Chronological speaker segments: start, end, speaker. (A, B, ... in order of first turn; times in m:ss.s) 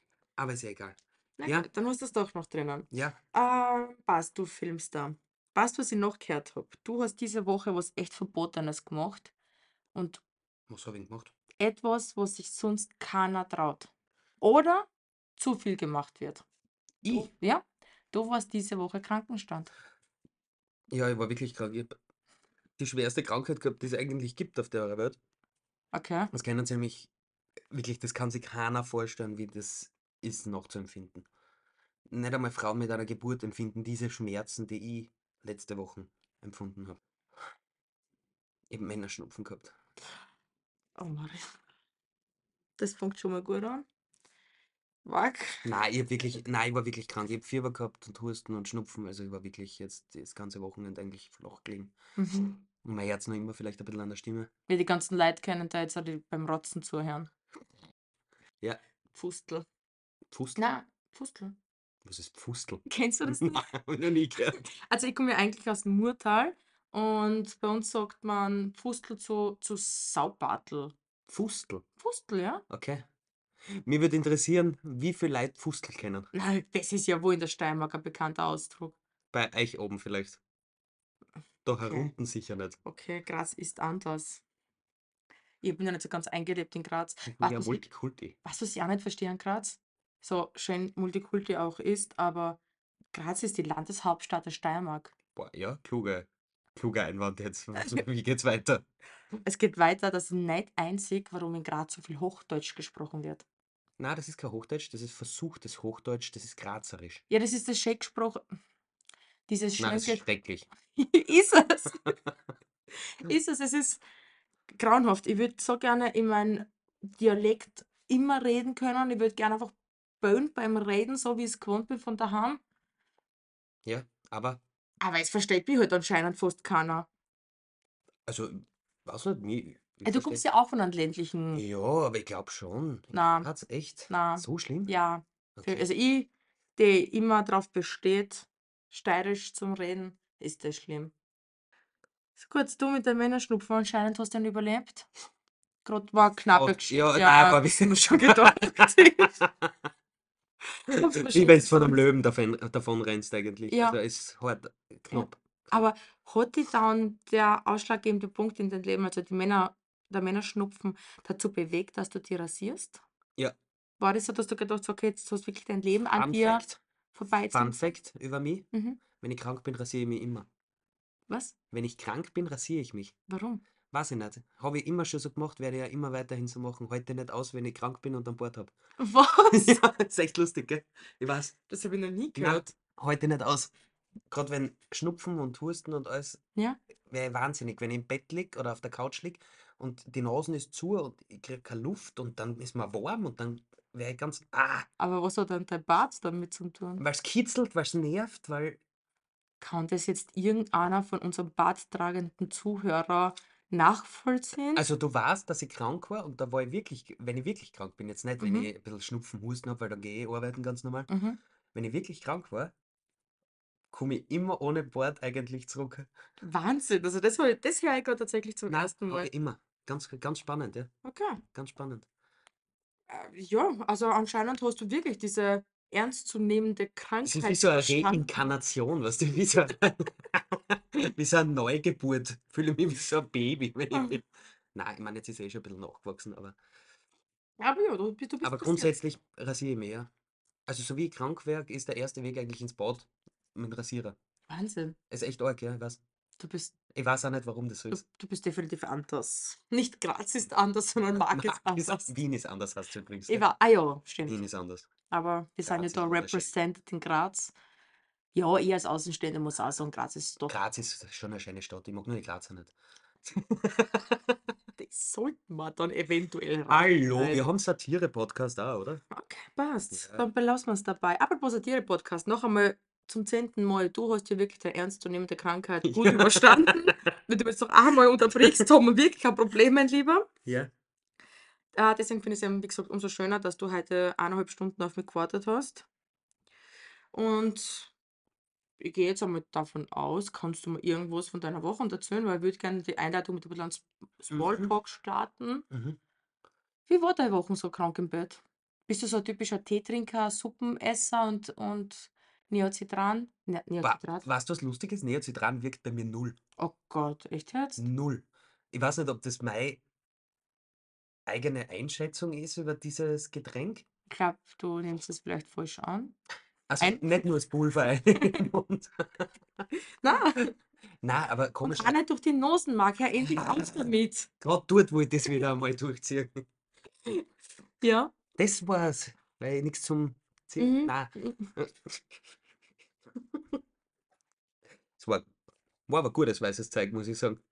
0:00.4-0:01.7 A
0:01.4-0:09.3 B
0:02.9-0:03.2 A
0:09.9-0:10.2 B
0:10.7-0:11.3 A
0:11.6-0:13.9 B
0:14.4-0:16.4 B
0:17.0-0:17.3 A
0:17.1-0:19.7 B
0:20.9-0:21.9 A
0:22.8-0:25.2 A
0:25.9-0:26.3 B
0:26.3-0:27.1 A
0:27.7-0:31.3 A
0:32.1-0:37.0 A
0:38.7-0:39.7 A
0:41.0-0:41.5 B
0:42.8-0:43.8 B
0:45.0-0:45.7 B
0:45.6-0:51.9 A
0:52.2-0:52.6 B
0:52.8-0:54.5 A
0:54.7-0:57.3 B
0:59.1-0:59.6 B
1:00.3-1:00.6 A
1:00.6-1:01.6 B
1:02.0-1:04.6 A
1:02.8-1:03.7 B
1:04.5-1:10.9 B
1:11.3-1:11.8 A
1:12.0-1:12.6 B
1:12.7-1:13.0 A
1:13.6-1:16.3 A
1:16.3-1:19.0 B
1:19.3-1:20.4 A
1:21.6-1:22.8 A
1:21.8-1:22.1 B
1:22.8-1:24.4 B
1:25.6-1:27.8 B
1:27.3-1:28.4 A
1:28.4-1:32.6 B
1:33.1-1:35.1 B
1:35.3-1:38.8 A
1:37.8-1:38.0 B
1:39.4-1:43.4 B
1:44.0-1:47.2 A
1:47.3-1:48.4 B
1:49.5-1:50.2 B
1:49.8-1:50.7 A
1:50.9-1:52.1 B
1:53.1-1:54.0 B
1:54.7-2:02.6 B
2:03.8-2:04.6 A
2:05.0-2:07.1 B
2:08.2-2:10.4 A
2:10.0-2:11.6 B
2:11.5-2:14.9 A
2:13.1-2:13.5 B
2:14.1-2:21.1 B
2:15.5-2:15.8 A
2:22.4-2:25.1 B
2:25.8-2:29.4 B
2:26.5-2:29.7 A
2:30.9-2:35.4 A
2:30.9-2:32.0 B
2:33.7-2:34.0 B
2:35.1-2:43.0 B
2:44.0-2:47.9 B
2:46.1-2:46.8 A
2:47.5-2:50.5 A
2:48.7-2:49.0 B
2:51.3-2:51.5 B
2:51.7-2:53.2 A
2:53.3-2:53.6 B
2:53.9-2:58.7 A
2:59.0-2:59.7 B
2:59.5-3:01.5 A
3:01.7-3:02.7 B
3:02.3-3:03.7 A
3:04.3-3:06.4 A
3:07.1-3:14.9 A
3:15.0-3:17.0 B
3:17.0-3:18.8 A
3:19.6-3:24.8 B
3:24.7-3:31.1 A
3:28.4-3:28.7 B
3:31.1-3:31.4 B
3:31.7-3:32.7 A
3:33.9-3:36.1 A
3:36.4-3:39.3 B
3:38.7-3:40.9 A
3:41.0-3:41.4 B
3:41.5-3:42.0 A
3:43.1-3:48.3 B
3:47.2-3:56.6 A
3:57.6-3:58.9 B
3:58.4-4:00.1 A
4:00.7-4:04.2 A
4:04.5-4:05.0 B
4:05.1-4:06.0 A
4:06.4-4:06.7 B
4:06.9-4:08.0 A
4:07.9-4:12.1 B
4:11.3-4:13.4 A
4:13.3-4:14.4 B
4:14.3-4:14.9 A
4:15.1-4:17.5 B
4:15.6-4:16.5 A
4:18.3-4:20.5 B
4:20.5-4:24.4 A
4:24.8-4:27.4 B
4:26.7-4:29.0 A
4:29.1-4:40.3 B
4:29.9-4:30.2 A
4:35.8-4:37.0 A
4:40.4-4:40.7 A
4:41.7-4:45.8 B
4:47.1-4:47.9 B
4:48.8-4:55.6 B
4:54.3-4:54.7 A
4:55.7-4:56.0 A
4:56.9-5:04.2 B
5:03.8-5:06.4 A
5:06.6-5:07.8 B
5:07.8-5:09.8 A
5:11.3-5:13.8 A
5:14.1-5:16.2 B
5:16.7-5:19.6 A
5:16.8-5:17.1 B
5:20.0-5:20.5 B
5:21.0-5:22.0 A
5:21.6-5:24.3 B
5:23.4-5:23.7 A
5:24.4-5:26.4 A
5:27.8-5:28.1 B
5:28.4-5:32.2 A
5:30.6-5:31.5 B
5:35.0-5:35.3 A
5:35.9-5:37.4 A